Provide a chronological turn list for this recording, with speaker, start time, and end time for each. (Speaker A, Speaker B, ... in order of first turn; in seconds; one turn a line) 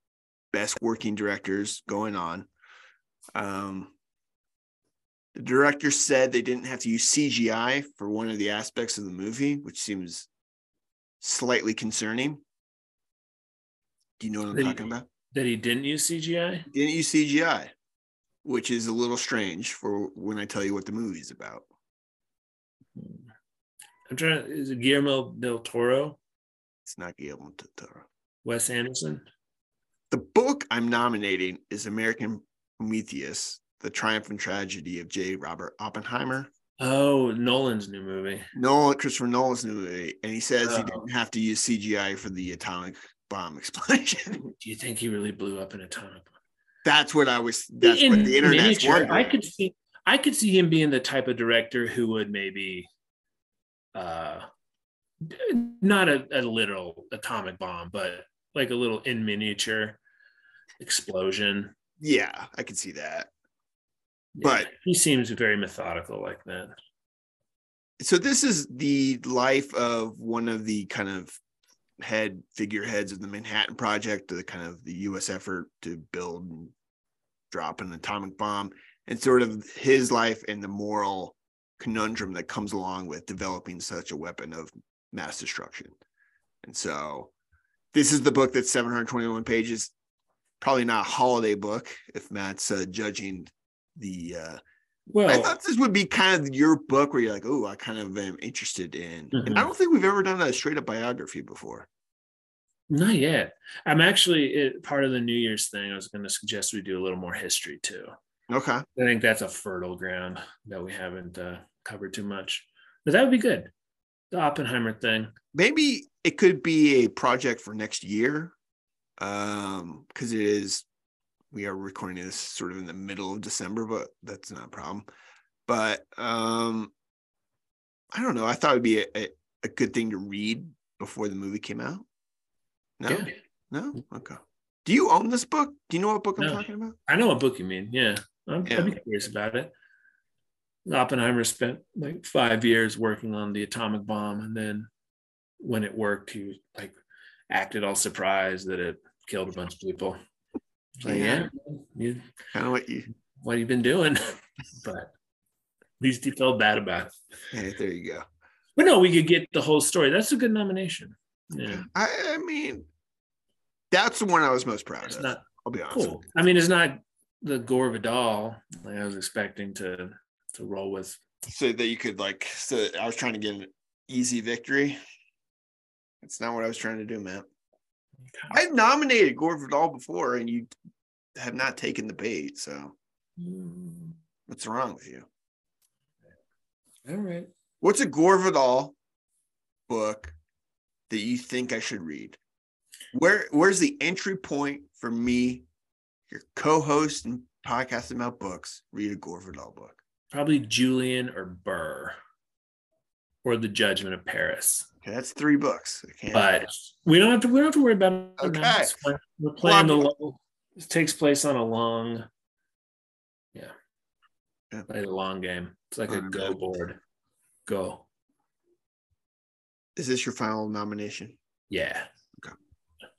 Speaker A: 0.5-2.5
Speaker A: 3.3-3.9
Speaker A: 5.3-10.3
Speaker A: 11.2-12.4
Speaker A: 14.2-15.0
Speaker B: 14.5-16.7
Speaker A: 16.7-17.7
Speaker A: 18.4-21.7
Speaker B: 23.0-23.2
Speaker B: 24.1-26.2
Speaker A: 26.8-28.1
Speaker B: 28.4-29.2
Speaker A: 30.1-36.5
Speaker B: 36.8-38.5
Speaker A: 38.5-44.5
Speaker B: 40.6-41.1
Speaker B: 44.6-46.3
Speaker A: 46.8-49.4
Speaker B: 47.8-52.9
Speaker B: 53.9-54.5
Speaker B: 55.2-60.0
Speaker B: 60.8-61.7
Speaker A: 62.0-63.3
Speaker B: 64.4-66.7
Speaker A: 64.4-64.7
Speaker A: 68.0-71.4
Speaker A: 72.0-76.7
Speaker A: 77.5-86.0
Speaker A: 86.6-87.3
Speaker A: 87.9-89.9
Speaker A: 90.6-94.6
Speaker B: 95.1-95.5
Speaker A: 95.2-101.9
Speaker B: 99.3-99.7
Speaker B: 102.9-108.1
Speaker A: 108.5-108.8
Speaker B: 109.0-113.7
Speaker B: 114.3-115.3
Speaker A: 115.5-118.5
Speaker A: 119.2-120.8
Speaker A: 121.5-125.0
Speaker A: 125.7-126.9
Speaker A: 128.1-132.0
Speaker A: 133.0-136.9
Speaker B: 133.1-133.4
Speaker B: 136.4-139.7
Speaker A: 138.7-138.9
Speaker B: 140.8-144.9
Speaker B: 145.6-146.9
Speaker B: 147.5-150.2
Speaker B: 151.0-152.2
Speaker A: 151.0-151.5
Speaker A: 152.5-153.1
Speaker B: 153.4-155.1
Speaker B: 156.0-157.1
Speaker A: 157.5-158.2
Speaker B: 158.8-161.8
Speaker A: 161.6-162.9
Speaker A: 163.9-166.2
Speaker B: 165.0-171.2
Speaker A: 171.4-175.0
Speaker A: 176.2-177.4
Speaker A: 178.5-180.7
Speaker A: 181.3-182.9
Speaker B: 183.4-184.2
Speaker A: 184.5-185.3
Speaker B: 187.1-187.5
Speaker A: 187.8-188.9
Speaker A: 189.9-190.3
Speaker A: 191.1-192.4
Speaker A: 193.1-195.6
Speaker A: 196.3-200.0
Speaker B: 200.3-202.2
Speaker B: 203.4-204.9
Speaker A: 205.0-206.5
Speaker B: 206.3-212.3
Speaker A: 208.4-208.9
Speaker A: 209.6-210.1
Speaker B: 214.9-217.0
Speaker A: 216.1-216.6
Speaker B: 217.7-218.0
Speaker A: 219.9-221.4
Speaker B: 221.7-222.1